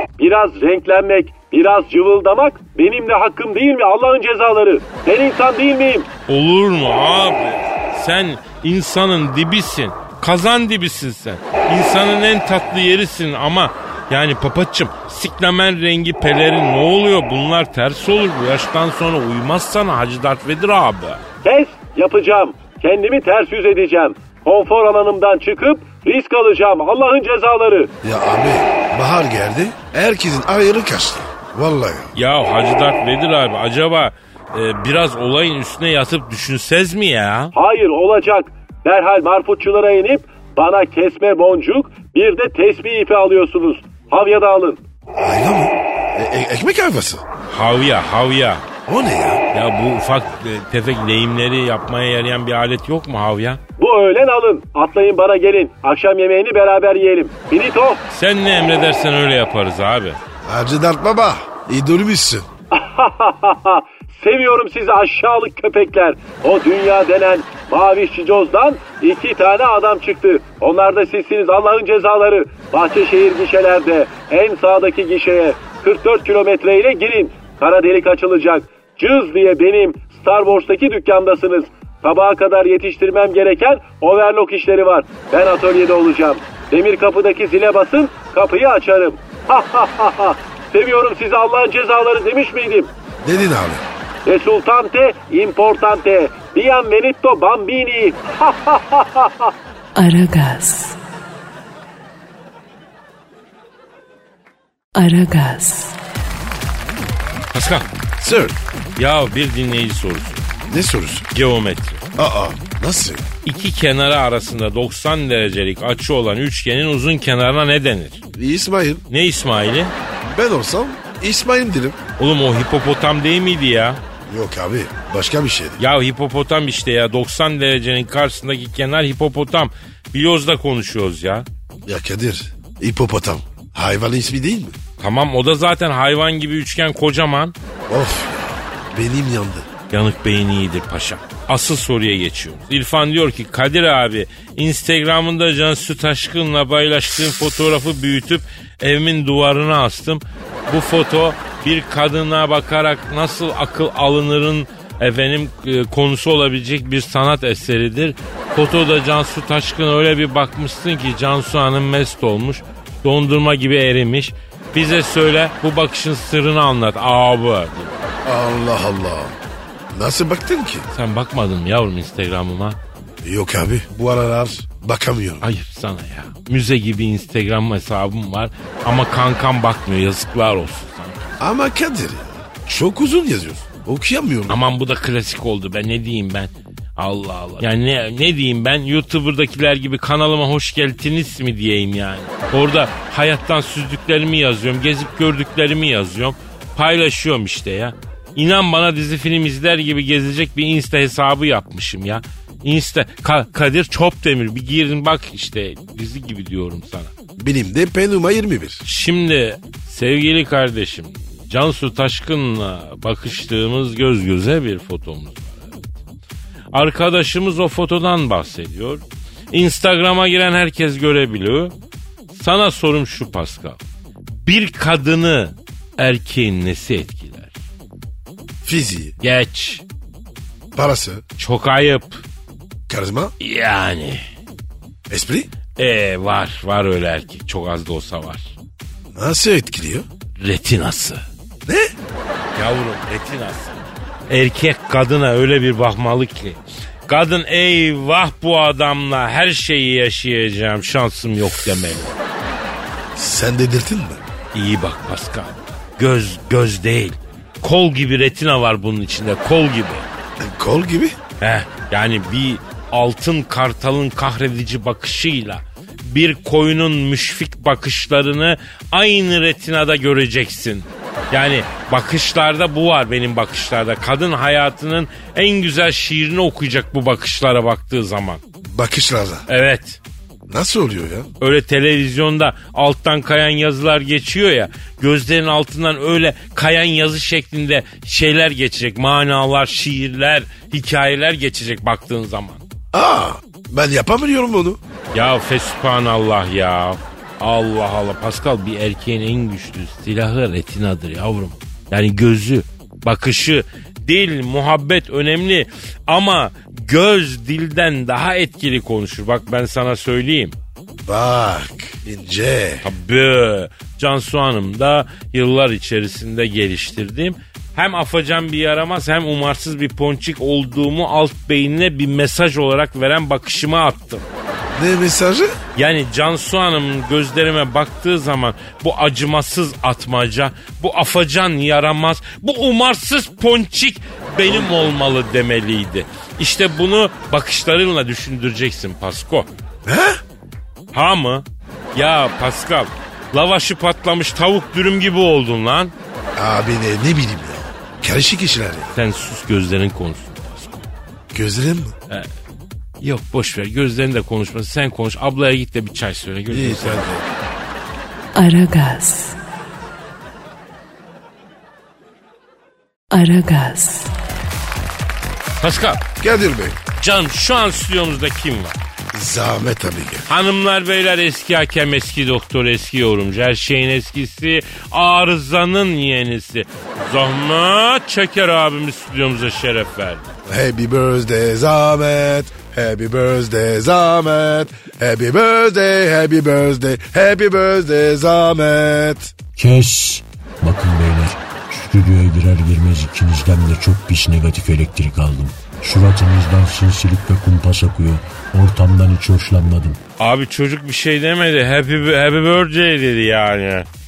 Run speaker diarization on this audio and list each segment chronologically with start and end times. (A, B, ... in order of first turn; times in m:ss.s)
0:00.2-0:06.1 A
0:06.3-0:21.2 B
0:21.4-0:27.9 A
0:28.0-0:32.1 C
0:32.1-0:37.5 B
0:37.5-0:44.8 A
0:45.2-0:47.2 C
0:47.5-0:48.6 B
0:48.8-0:49.4 C
0:49.5-0:53.6 B
0:53.8-0:58.0 A
0:58.1-1:00.2 B
1:00.4-1:02.5 C
1:02.7-1:32.9 A
1:33.2-1:33.8 C
1:34.2-1:39.5 A
1:39.9-1:41.0 D
1:44.9-1:46.0 D
1:47.5-1:47.8 B
1:48.2-1:48.6 C
1:49.0-1:50.4 B
1:50.7-1:51.2 C
1:51.3-1:52.0 B
1:52.2-1:53.3 C
1:53.4-1:58.2 B
1:58.3-1:59.0 C
1:59.1-1:59.9 B
2:00.2-2:02.0 C
2:02.2-2:04.0 B
2:04.3-2:05.8 C
2:05.8-2:11.4 B
2:11.8-2:14.8 C
2:15.0-2:17.5 B
2:17.9-2:19.7 C
2:19.9-2:48.0 B
2:48.2-2:49.4 C
2:49.9-2:50.9 C
2:50.9-2:52.8 B
2:53.2-2:55.4 C
2:55.4-3:01.4 B
3:01.4-3:04.6 C
3:04.5-3:27.1 B
3:27.4-3:28.8 C
3:28.8-3:35.9 B
3:36.7-3:41.7 B
3:42.3-3:43.8 B
3:44.3-3:47.5 B
3:48.6-3:49.2 C
3:49.2-3:49.8 B
3:50.7-3:51.2 C
3:51.4-3:52.2 B
3:52.9-3:53.3 C
3:53.4-3:54.2 B
3:55.1-3:55.5 C
3:55.8-3:58.5 B
3:59.1-4:00.0 C
4:00.4-4:01.2 B
4:01.6-4:01.9 C
4:02.5-4:12.1 B
4:13.1-4:14.2 C
4:14.5-4:20.0 B
4:20.4-4:21.2 C
4:21.4-4:38.4 B
4:38.6-4:39.4 C
4:39.5-4:40.0 B
4:40.5-4:41.3 C
4:41.4-4:52.6 B
4:52.9-4:54.8 C
4:55.1-5:10.5 B
5:11.0-5:12.9 C
5:12.8-5:24.2 B
5:24.7-5:25.6 C
5:25.8-5:39.5 B
5:34.5-5:34.9 C
5:39.8-5:40.2 C
5:40.9-5:45.9 B
5:46.4-5:48.9 C
5:48.9-5:50.9 B
5:51.3-5:52.0 C
5:53.0-5:57.1 B
5:56.5-5:57.3 C
5:58.3-5:59.4 D
6:03.1-6:04.1 D
6:05.6-6:06.0 B
6:06.2-6:06.8 C
6:07.0-6:08.8 B
6:09.1-6:10.3 C
6:10.3-6:20.3 B
6:20.4-6:29.3 C
6:29.6-6:40.0 E
6:40.2-6:43.9 B